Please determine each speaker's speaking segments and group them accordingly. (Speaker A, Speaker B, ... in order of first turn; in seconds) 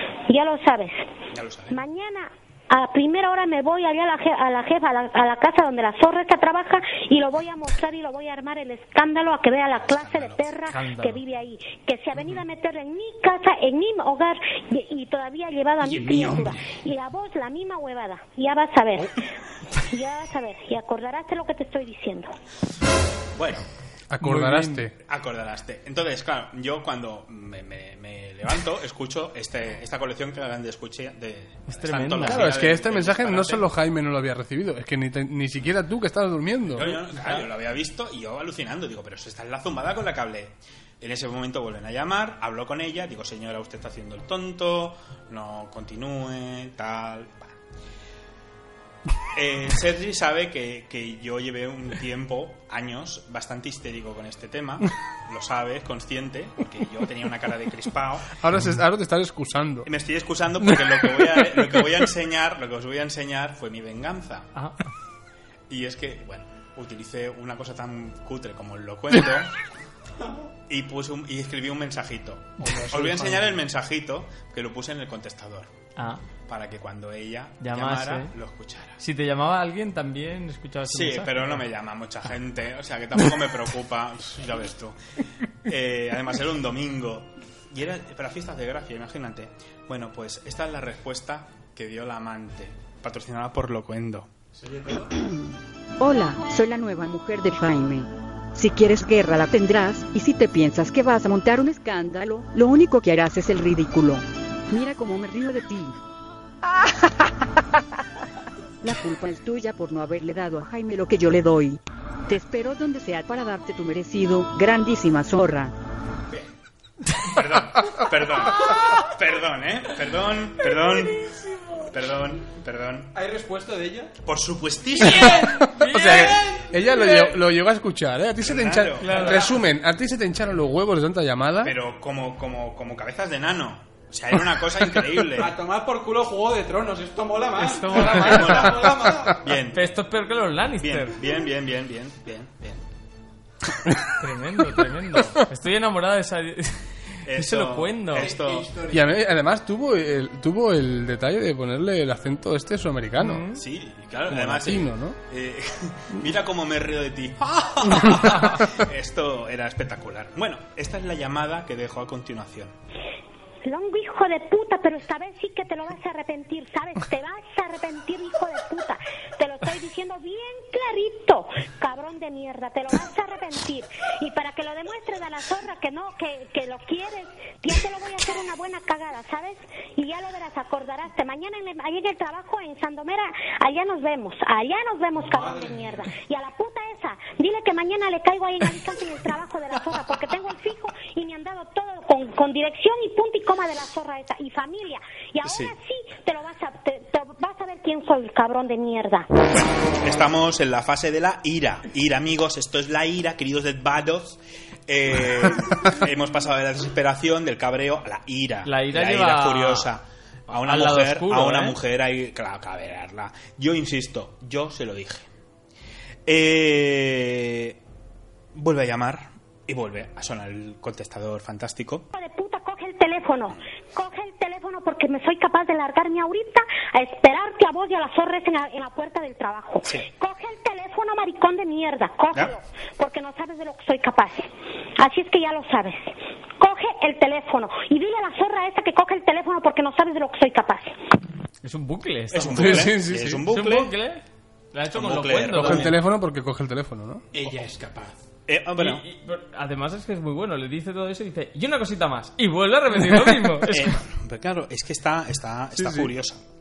Speaker A: 0.3-1.1, 1.7-19.1, 19.8-22.3, 163.6-199.3, 222.1-240.9
Speaker B: 1.3-1.8, 9.7-10.5, 23.3-23.6, 25.0-33.7, 36.7-47.5, 49.3-58.4, 59.8-64.5, 65.7-69.5, 70.7-75.7, 76.5-79.0, 80.9-85.0, 85.6-94.3, 117.2-121.3, 121.8-123.1, 124.2-125.5, 128.4-129.5, 131.6-135.5, 137.9-139.8, 140.8-142.8, 147.2-148.7, 153.5-162.7, 195.4-195.7, 199.5-215.3, 216.2-217.8, 218.5-222.1, 242.3-243.9, 244.9-245.9, 248.5-249.0, 253.7-256.4
Speaker C: 10.7-11.2, 24.2-24.9, 31.7-32.5, 76.0-76.2, 77.6-78.3, 79.0-81.7, 125.9-126.3, 129.0-129.5, 137.6-138.8, 139.7-141.2, 144.2-148.3, 153.2-153.6, 208.7-209.9, 210.6-211.8, 241.6-244.2, 244.7-245.9, 248.8-253.9
Speaker D: 15.8-16.6, 72.6-73.6, 94.5-95.2, 123.1-124.1, 124.9-126.9, 135.4-139.4, 148.1-149.2, 185.2-186.1, 247.3-248.2
Speaker E: 24.1-24.9, 32.2-37.0, 58.4-59.9, 61.2-61.5, 125.0-131.8, 148.9-153.4, 154.3-155.2, 242.5-243.4, 245.5-247.2, 255.7-256.1
Speaker F: 96.0-106.0, 108.8-115.7